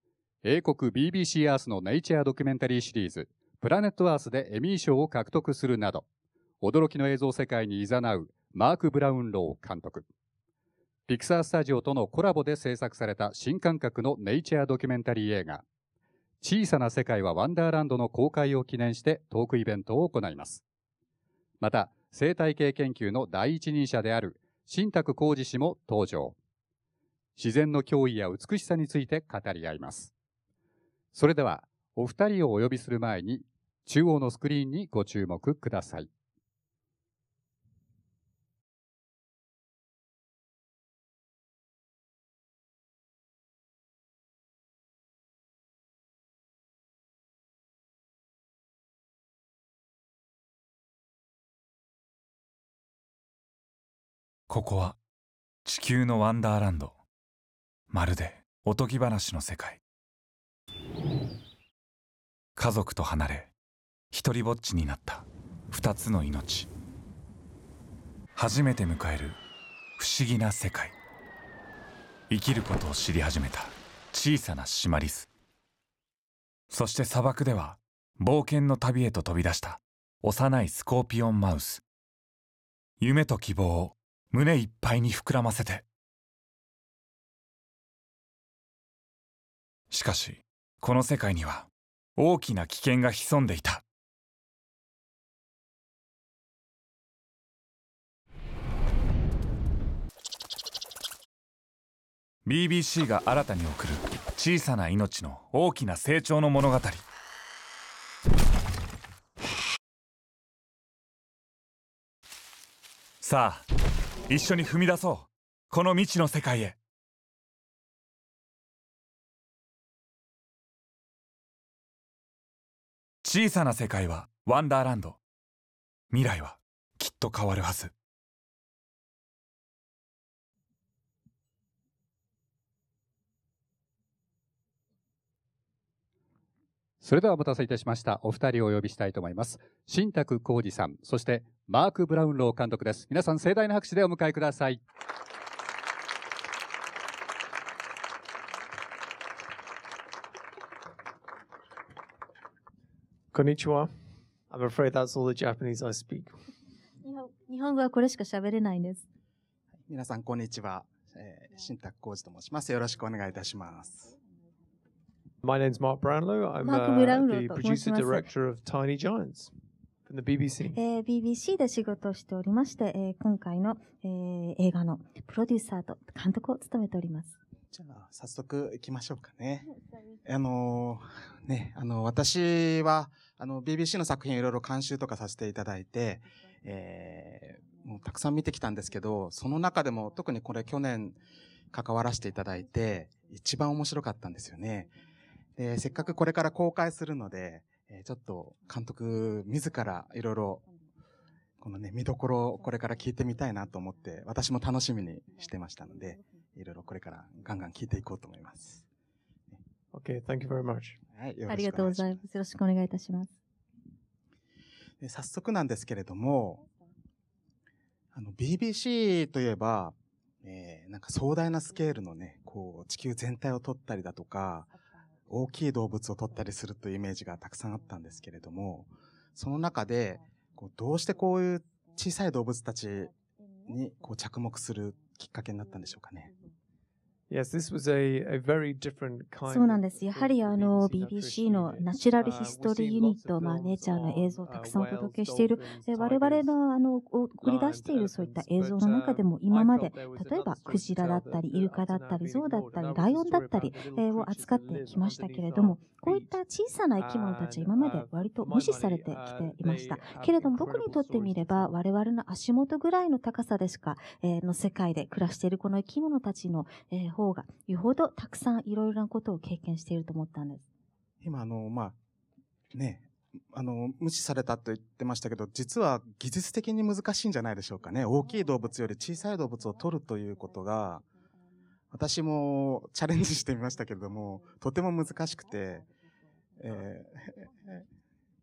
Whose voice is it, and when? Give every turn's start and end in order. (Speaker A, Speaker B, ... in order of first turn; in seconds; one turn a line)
Speaker A: 0.4-6.0
Speaker A: 6.6-10.0
Speaker A: 11.1-15.6
Speaker A: 16.4-20.6
Speaker A: 21.6-26.4
Speaker A: 27.4-30.1
Speaker A: 31.1-36.1
Speaker B: 54.5-55.0
Speaker B: 55.6-57.0
Speaker B: 57.9-59.8
Speaker B: 62.6-63.5
Speaker B: 64.1-66.7
Speaker B: 68.3-69.4
Speaker B: 70.0-70.9
Speaker B: 72.3-75.3
Speaker B: 76.7-81.8
Speaker B: 83.0-85.8
Speaker B: 89.9-93.8
Speaker B: 102.4-107.0
Speaker B: 113.2-113.7
Speaker B: 114.3-116.8
Speaker B: 123.2-125.2
Speaker B: 126.1-127.9
Speaker A: 137.0-144.8
Speaker C: 153.3-153.9
Speaker C: 154.5-156.3
Speaker D: 157.0-159.0
Speaker E: 159.9-164.1
Speaker C: 165.4-169.5
Speaker D: 166.6-168.3
Speaker C: 170.1-170.8
Speaker D: 170.7-177.3
Speaker E: 177.7-179.7
Speaker E: 180.2-191.2
Speaker E: 191.7-194.9
Speaker E: 195.6-200.6
Speaker E: 201.6-208.8
Speaker C: 209.9-211.0
Speaker E: 211.1-212.2
Speaker D: 211.5-213.3
Speaker E: 215.0-216.6
Speaker E: 218.1-224.7
Speaker E: 225.3-233.1
Speaker E: 233.7-236.3
Speaker C: 237.3-246.5
Speaker D: 239.5-270.6
Speaker C: 247.4-256.4
Speaker C: 257.0-261.7
Speaker E: 271.2-272.0
Speaker E: 272.7-281.0
Speaker E: 281.9-285.9
Speaker E: 286.6-287.8